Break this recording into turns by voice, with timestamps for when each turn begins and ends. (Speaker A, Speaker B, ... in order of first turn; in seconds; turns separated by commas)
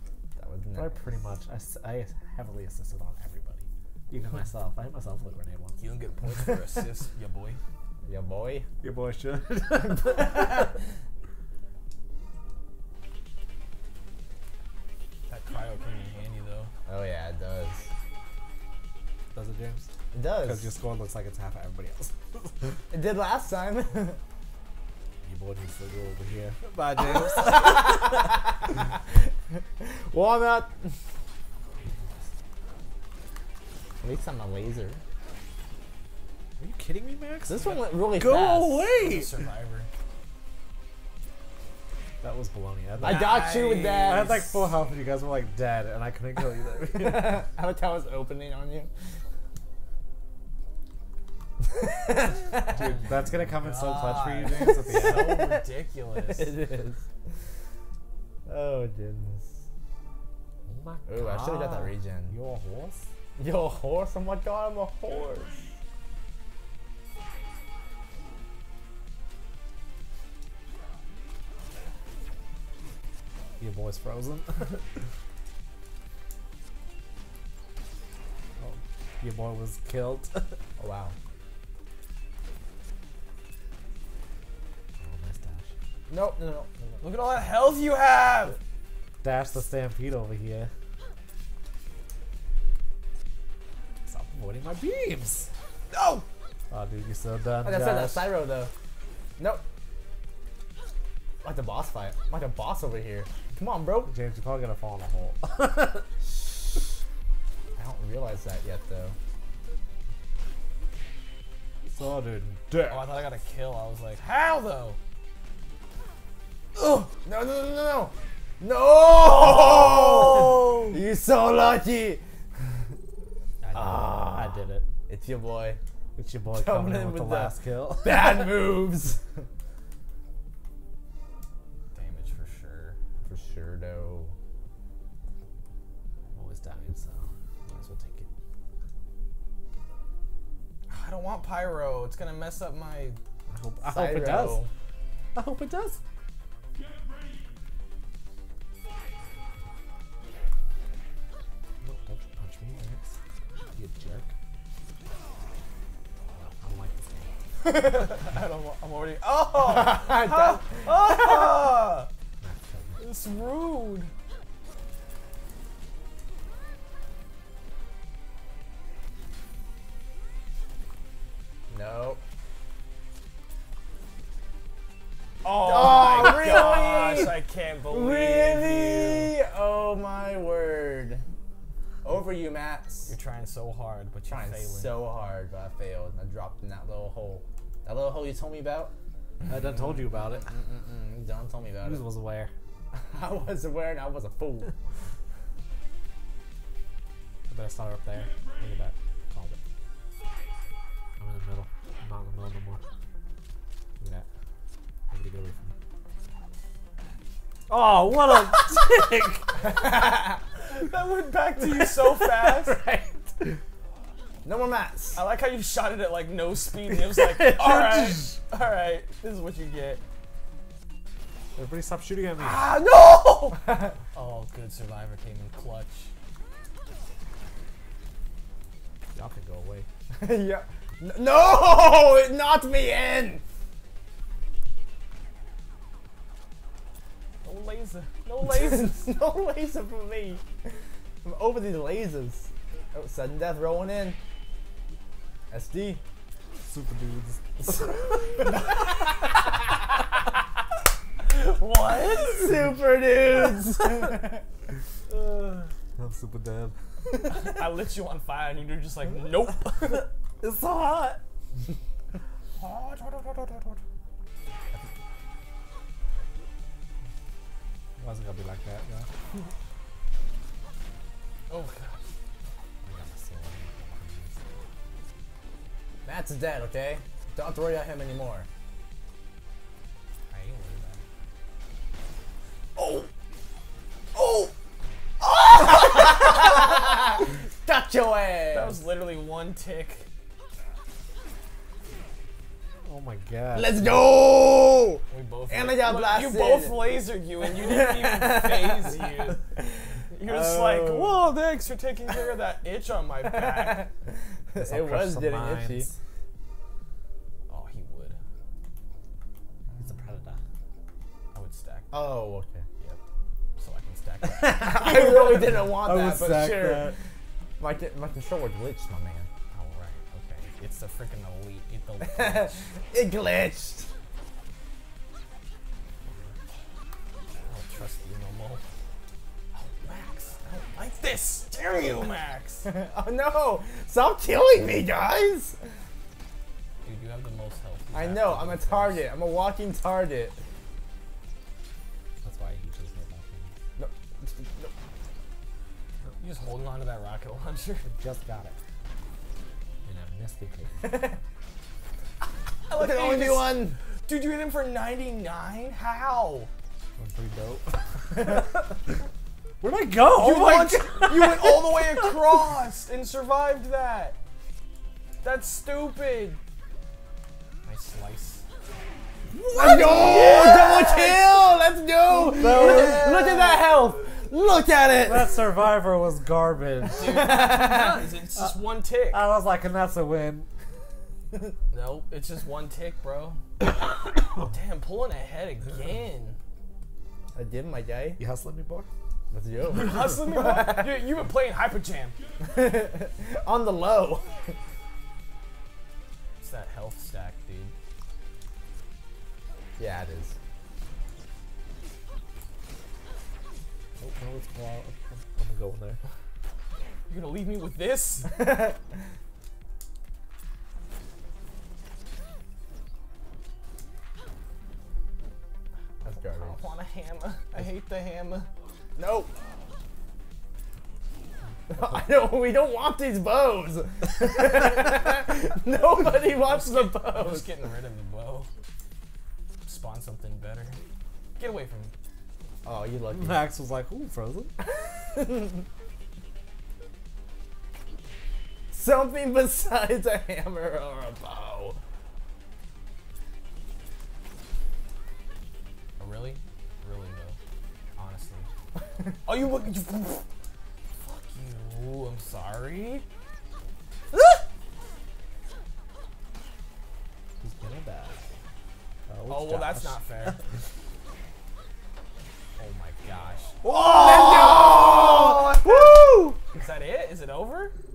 Speaker A: 0.4-1.0, Speaker B: 0.7-5.8, Speaker C: 5.8-7.6, Speaker A: 8.0-8.7, Speaker B: 8.8-10.7, Speaker A: 10.1-10.7, Speaker C: 15.3-16.7, Speaker A: 16.9-17.9, Speaker B: 19.3-19.9, Speaker A: 20.1-20.7, Speaker B: 20.4-22.7, Speaker A: 22.9-24.2, Speaker B: 25.2-28.3, Speaker A: 27.1-30.9, Speaker A: 34.0-35.0, Speaker B: 36.6-39.4, Speaker A: 37.5-38.9, Speaker C: 38.9-39.9, Speaker B: 42.2-43.4, Speaker A: 43.0-44.5, Speaker C: 43.0-44.4, Speaker B: 44.0-47.4, Speaker A: 46.9-48.9, Speaker A: 51.6-53.0, Speaker C: 52.6-56.6, Speaker B: 52.7-55.5, Speaker A: 54.8-55.6, Speaker A: 56.2-57.0, Speaker A: 58.5-59.5, Speaker B: 60.7-63.1, Speaker A: 61.1-62.3, Speaker A: 63.4-65.6, Speaker B: 73.6-74.8, Speaker B: 78.6-80.6, Speaker A: 80.8-81.1, Speaker B: 85.0-85.7, Speaker A: 86.1-87.0, Speaker C: 87.0-88.6, Speaker B: 89.2-90.7, Speaker B: 94.1-95.5, Speaker C: 95.9-96.2, Speaker B: 96.7-98.3, Speaker A: 97.6-98.7, Speaker A: 101.4-104.1, Speaker B: 104.0-106.0, Speaker A: 106.2-106.8, Speaker A: 107.8-109.2, Speaker B: 111.9-113.1, Speaker C: 112.9-115.0, Speaker A: 116.8-122.2, Speaker C: 119.3-121.0, Speaker A: 123.7-124.5, Speaker B: 123.7-124.8, Speaker A: 125.1-125.8, Speaker B: 126.2-128.6, Speaker A: 126.5-129.2, Speaker C: 131.9-133.0, Speaker A: 133.2-134.3, Speaker B: 136.3-138.3, Speaker C: 140.9-143.2, Speaker B: 143.5-144.6, Speaker A: 143.8-144.7, Speaker B: 145.3-146.0, Speaker B: 151.8-153.1, Speaker B: 153.7-154.3, Speaker B: 156.3-157.3, Speaker C: 157.6-162.1, Speaker A: 159.6-161.7, Speaker B: 162.4-163.0, Speaker C: 163.0-164.1, Speaker A: 171.7-172.2, Speaker C: 175.4-179.3, Speaker A: 175.5-181.2, Speaker A: 182.0-183.1, Speaker C: 183.1-185.0, Speaker A: 184.3-188.9, Speaker B: 189.4-190.5, Speaker A: 190.1-192.0, Speaker B: 191.8-192.5, Speaker A: 192.9-194.7, Speaker B: 197.5-199.6, Speaker B: 201.2-202.8, Speaker B: 204.0-204.2, Speaker B: 205.1-205.7, Speaker B: 207.7-209.6, Speaker A: 209.6-210.4, Speaker C: 210.7-212.8, Speaker B: 211.6-213.6, Speaker A: 214.4-215.2, Speaker C: 215.1-220.0, Speaker B: 217.1-218.4, Speaker B: 221.6-222.7, Speaker C: 222.4-226.1, Speaker B: 229.1-229.8, Speaker A: 230.1-233.4, Speaker C: 237.4-239.2, Speaker A: 238.4-240.7, Speaker A: 241.2-244.2, Speaker A: 245.5-246.0, Speaker B: 246.7-248.4, Speaker A: 248.4-248.6, Speaker C: 251.2-252.6, Speaker A: 252.2-254.4, Speaker B: 255.1-256.7, Speaker C: 257.2-260.1, Speaker B: 260.4-261.2, Speaker C: 262.6-263.8, Speaker B: 268.0-269.1, Speaker C: 271.5-272.0, Speaker B: 272.8-274.6, Speaker A: 276.1-278.5, Speaker C: 280.3-281.0, Speaker C: 282.8-283.1, Speaker C: 284.1-284.5, Speaker C: 285.2-286.4, Speaker A: 285.5-288.8, Speaker C: 288.5-290.1, Speaker B: 292.8-294.0, Speaker A: 293.5-300.0, Speaker C: 295.1-299.4, Speaker C: 300.1-303.9, Speaker B: 300.3-301.1, Speaker A: 303.2-305.9, Speaker B: 304.6-305.9, Speaker C: 307.5-308.2, Speaker B: 309.7-310.4, Speaker C: 311.3-311.9, Speaker A: 311.9-312.6, Speaker C: 313.6-315.2, Speaker B: 314.2-317.0, Speaker A: 314.6-316.9, Speaker A: 317.6-319.3, Speaker C: 319.5-322.6, Speaker A: 322.0-323.9, Speaker C: 327.4-328.6, Speaker C: 329.5-332.7, Speaker A: 332.6-335.6, Speaker C: 336.8-339.1, Speaker A: 337.9-340.4, Speaker B: 342.2-343.5, Speaker A: 343.8-344.7, Speaker C: 346.2-347.9, Speaker B: 348.0-348.6, Speaker B: 349.8-351.0, Speaker A: 350.8-351.2, Speaker C: 352.7-356.5, Speaker A: 352.7-353.8, Speaker B: 357.0-358.7, Speaker B: 359.6-362.4, Speaker C: 360.1-364.2, Speaker C: 365.2-366.4, Speaker C: 367.6-368.4, Speaker C: 369.3-371.5, Speaker A: 369.5-375.4, Speaker B: 372.2-373.1, Speaker C: 372.2-373.7, Speaker B: 375.0-377.2, Speaker C: 377.0-379.2, Speaker A: 377.0-378.1, Speaker B: 379.1-380.5, Speaker C: 381.7-383.4, Speaker C: 384.3-386.4, Speaker A: 387.3-388.2, Speaker B: 388.2-388.9, Speaker A: 389.3-391.0, Speaker C: 389.7-392.2, Speaker A: 392.4-394.6, Speaker C: 396.4-397.7, Speaker A: 399.8-400.3, Speaker B: 404.0-406.0, Speaker C: 407.1-408.4, Speaker A: 408.3-408.8, Speaker A: 416.0-416.7, Speaker C: 416.3-418.5, Speaker A: 418.9-419.3, Speaker A: 421.7-427.5, Speaker C: 426.0-428.5, Speaker C: 429.6-430.8, Speaker C: 431.4-431.9, Speaker A: 432.6-433.5, Speaker B: 433.1-434.5, Speaker A: 435.0-435.6, Speaker A: 438.7-441.8, Speaker C: 446.0-447.4, Speaker C: 447.9-448.5, Speaker C: 449.2-450.2, Speaker C: 451.0-453.0, Speaker C: 454.1-454.4, Speaker B: 457.4-458.3, Speaker B: 459.1-460.4, Speaker C: 459.3-460.4, Speaker C: 462.6-467.7, Speaker A: 463.6-466.4